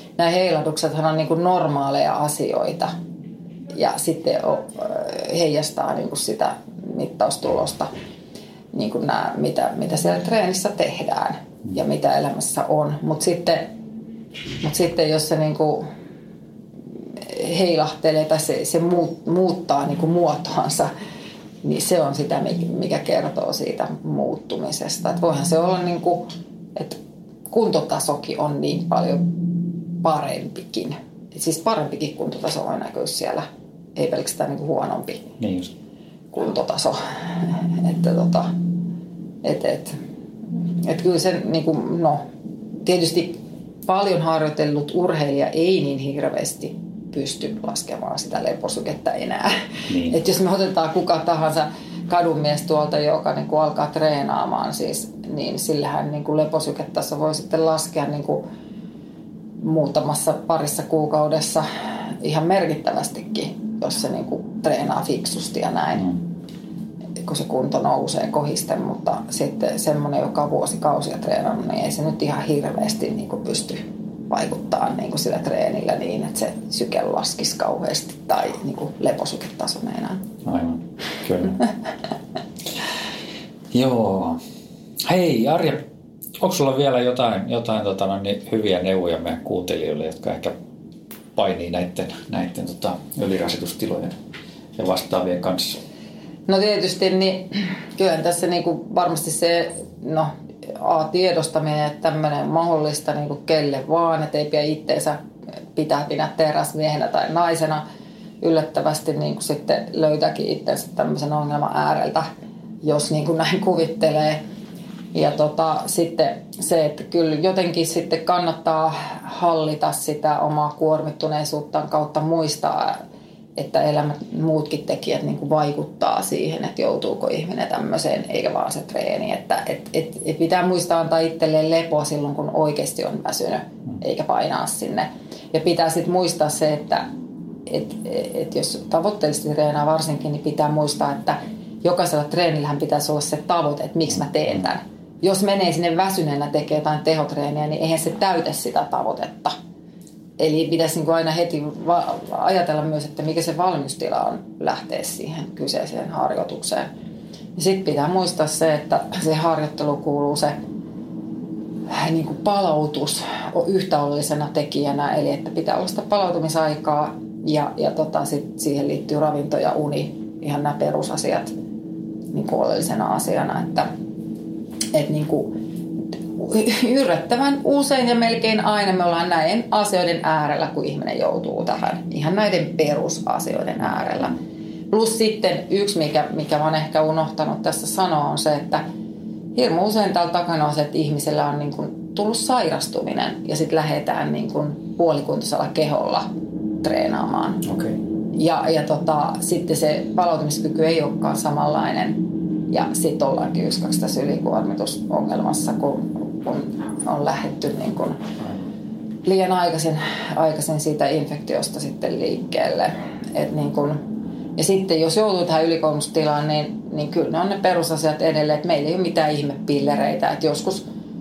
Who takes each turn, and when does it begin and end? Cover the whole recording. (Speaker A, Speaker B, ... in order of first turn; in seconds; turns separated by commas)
Speaker A: 0.2-2.9, Speaker A: 3.7-7.9, Speaker A: 8.7-13.7, Speaker A: 14.6-15.8, Speaker A: 17.0-20.9, Speaker A: 21.6-27.0, Speaker A: 27.5-29.2, Speaker A: 30.0-35.3, Speaker B: 35.4-35.7, Speaker A: 36.3-38.5, Speaker A: 39.4-40.0, Speaker A: 40.8-42.2, Speaker A: 42.8-58.4, Speaker B: 49.9-50.1, Speaker A: 59.6-61.7, Speaker A: 62.2-66.2, Speaker A: 67.2-80.2, Speaker B: 80.4-81.6, Speaker B: 83.7-84.4, Speaker B: 85.0-85.8, Speaker B: 86.4-90.5, Speaker B: 91.3-94.2, Speaker B: 94.8-95.8, Speaker A: 96.5-105.2, Speaker A: 105.7-107.8, Speaker A: 108.4-112.3, Speaker A: 112.8-114.4, Speaker A: 115.1-123.0, Speaker A: 123.5-137.1, Speaker A: 137.7-149.6, Speaker A: 150.4-156.9, Speaker A: 157.6-160.6, Speaker A: 161.9-171.5, Speaker A: 172.3-173.9, Speaker A: 174.9-175.5, Speaker A: 176.3-184.3, Speaker A: 184.9-188.8, Speaker A: 189.5-196.3, Speaker A: 196.8-197.6, Speaker B: 197.6-198.0, Speaker A: 198.3-208.2, Speaker A: 209.2-214.0, Speaker A: 214.6-220.8